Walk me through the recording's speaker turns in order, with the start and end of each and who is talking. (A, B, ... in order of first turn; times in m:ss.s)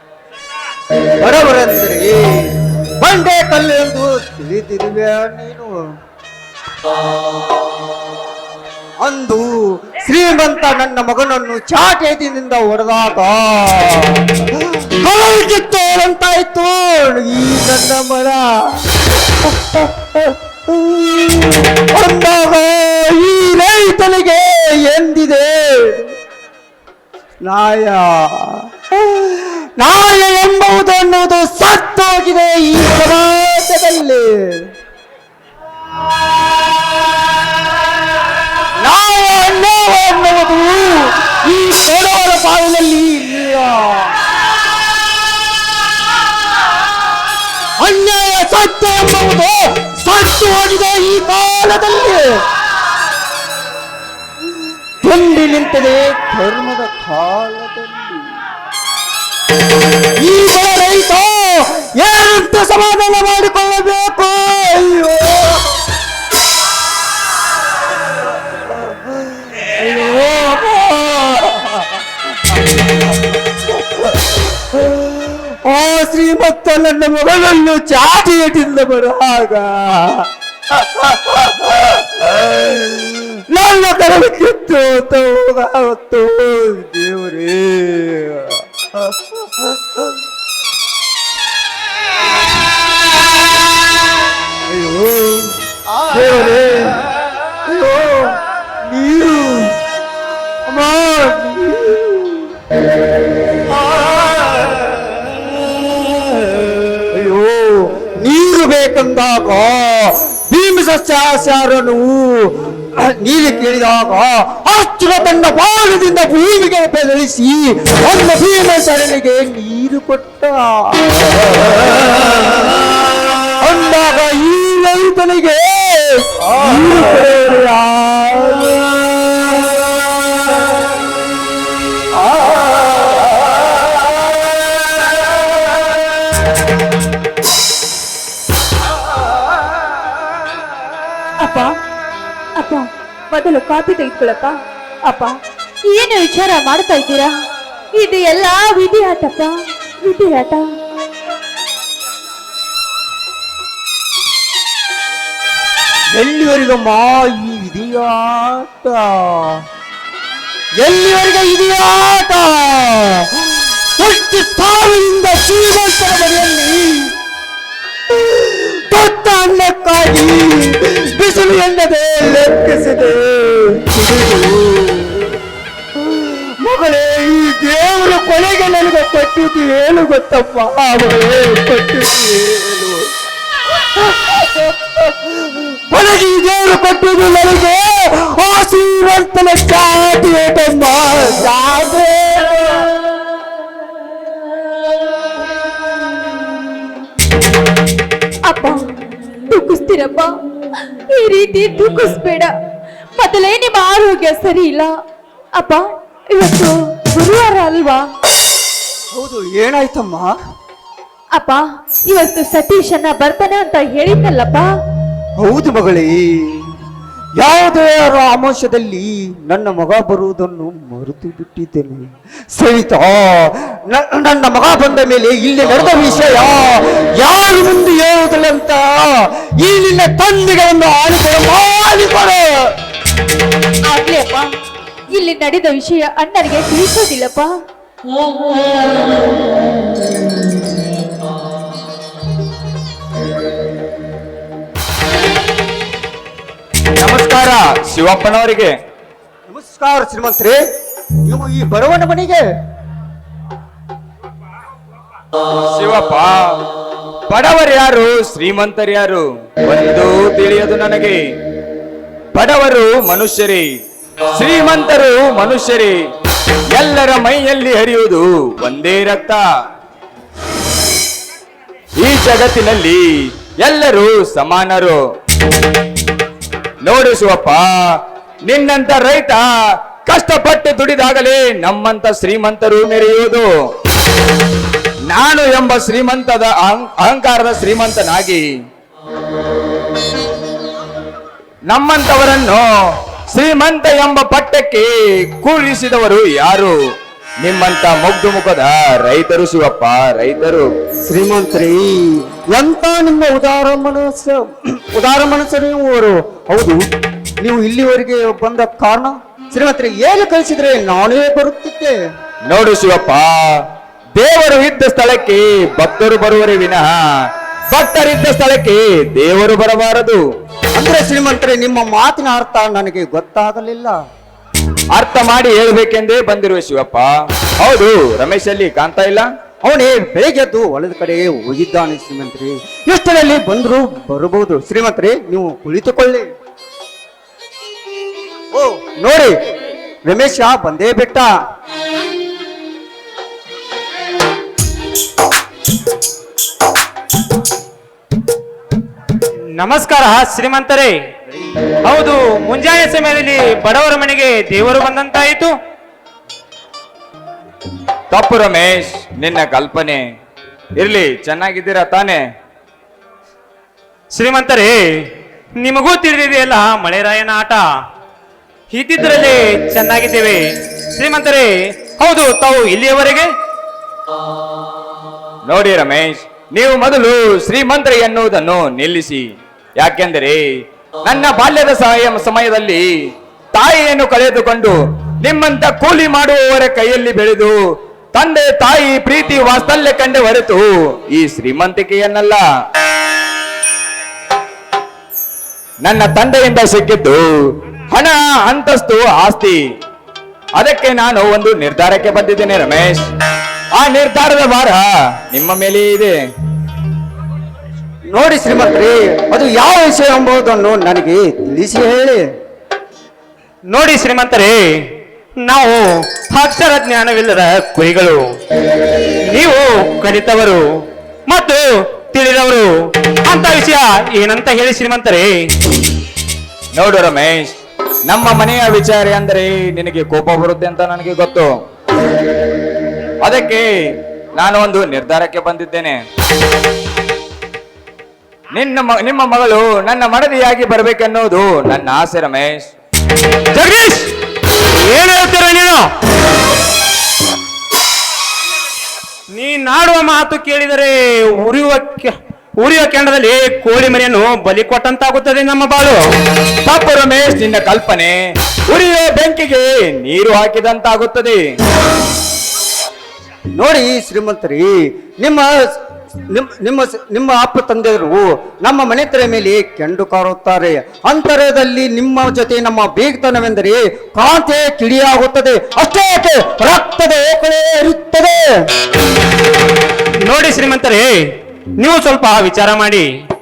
0:01.2-0:05.7 A
0:09.0-0:14.4 A
0:14.9-0:18.5 A
0:19.4-0:26.1 A
0:27.4-0:34.7 A
0:38.8-0:44.2 A
0:47.8-0:52.2 A
0:55.0-0:58.2 A
1:00.2-1:05.7 A
1:09.6-1:12.0 A
1:14.7-1:29.6 A
1:34.7-1:37.0 A
1:37.7-1:39.8 A
1:40.7-1:42.5 A
1:43.8-1:45.0 A
1:47.1-2:01.8 A
2:03.6-2:09.6 A
2:21.4-2:21.7 B
2:22.6-2:24.6 B
2:25.1-2:25.3 B
2:25.9-2:27.3 B
2:28.0-2:30.6 B
2:36.2-2:39.6 A
2:40.8-2:47.1 A
2:48.1-2:55.4 A
2:56.0-3:03.1 A
3:04.0-3:12.9 A
3:18.5-3:18.8 B
3:19.5-3:20.3 B
3:21.1-3:22.5 B
3:23.2-3:24.9 B
3:25.6-3:25.8 B
3:26.3-3:28.0 B
3:29.1-3:30.4 A
3:31.4-3:34.7 B
3:35.4-3:36.7 A
3:37.4-3:52.5 A
3:53.9-3:54.5 B
3:55.1-3:57.5 B
4:07.0-4:08.8 C
4:09.5-4:10.6 A
4:11.2-4:12.4 A
4:15.7-4:16.6 C
4:17.3-4:21.2 C
4:22.3-4:23.7 C
4:24.4-4:25.9 C
4:26.7-4:29.4 C
4:32.0-4:33.0 C
4:33.6-4:35.0 C
4:36.8-4:37.7 C
4:38.5-4:39.5 C
4:40.1-4:43.5 C
4:45.1-4:48.4 C
4:51.7-4:52.7 C
4:53.3-4:56.7 C
4:57.4-5:00.7 C
5:01.1-5:06.9 A
5:07.4-5:12.0 A
5:12.5-5:13.4 C
5:14.2-5:16.9 C
5:17.7-5:20.2 C
5:20.8-5:24.0 A
5:24.9-5:27.1 C
5:27.6-5:29.3 C
5:29.6-5:36.3 A
5:38.5-5:39.3 A
5:40.1-5:41.3 A
5:49.6-5:51.0 D
5:51.8-5:55.5 D
5:58.1-6:00.0 C
6:00.8-6:02.2 C
6:04.1-6:04.8 D
6:05.6-6:07.6 D
6:08.7-6:10.4 D
6:11.0-6:13.3 D
6:15.5-6:19.2 C
6:19.8-6:20.4 C
6:21.1-6:22.8 C
6:23.5-6:27.6 C
6:28.1-6:32.4 C
6:35.8-6:37.3 C
6:37.9-6:39.6 C
6:40.6-6:43.1 C
6:43.8-6:46.1 C
6:48.1-6:52.2 A
6:53.7-6:54.6 D
6:55.4-6:58.3 D
6:59.3-7:00.6 D
7:01.3-7:02.7 D
7:03.3-7:05.3 D
7:06.8-7:07.6 C
7:08.1-7:11.5 C
7:13.2-7:13.6 C
7:14.4-7:16.0 C
7:18.5-7:22.7 C
7:23.5-7:24.1 D
7:24.8-7:25.8 D
7:29.3-7:36.0 D
7:36.7-7:38.2 C
7:38.7-7:41.4 C
7:43.6-7:45.5 A
7:46.3-7:58.4 A
8:00.3-8:01.1 D
8:01.8-8:03.1 D